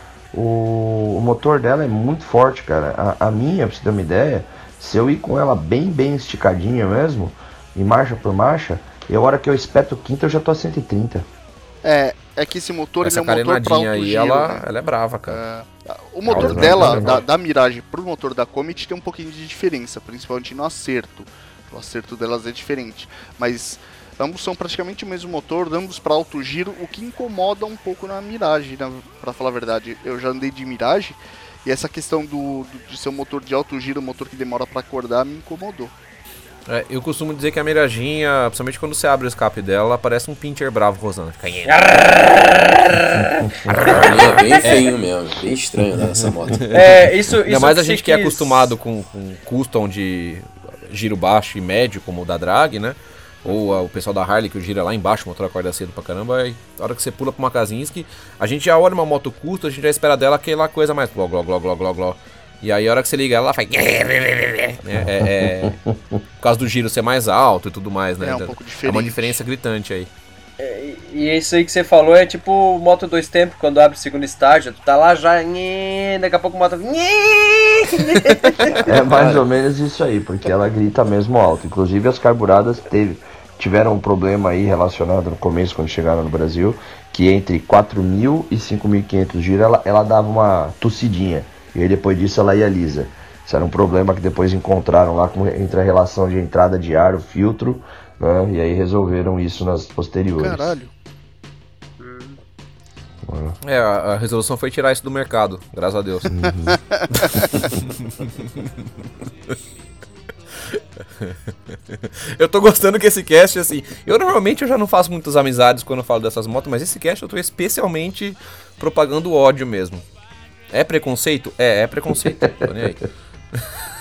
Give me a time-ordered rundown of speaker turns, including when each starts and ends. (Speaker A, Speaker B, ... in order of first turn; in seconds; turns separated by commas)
Speaker A: 0.3-11.3, Speaker B: 11.8-14.6, Speaker C: 13.0-15.4, Speaker B: 15.3-35.9, Speaker A: 16.3-17.2, Speaker C: 16.3-17.2, Speaker C: 36.7-42.0, Speaker D: 41.7-44.6, Speaker A: 43.2-44.0, Speaker C: 43.7-45.0, Speaker E: 43.8-46.7, Speaker C: 46.6-65.8, Speaker D: 46.7-48.7, Speaker A: 65.0-65.8, Speaker C: 66.4-70.1, Speaker B: 68.2-69.4, Speaker D: 70.6-78.8, Speaker C: 78.5-78.8, Speaker A: 78.8-100.8, Speaker E: 78.9-79.4, Speaker B: 100.4-100.9, Speaker D: 102.0-102.4, Speaker A: 103.2-103.5, Speaker C: 103.6-106.4, Speaker A: 106.3-106.8, Speaker C: 107.2-109.5, Speaker C: 110.6-120.0, Speaker C: 120.7-123.6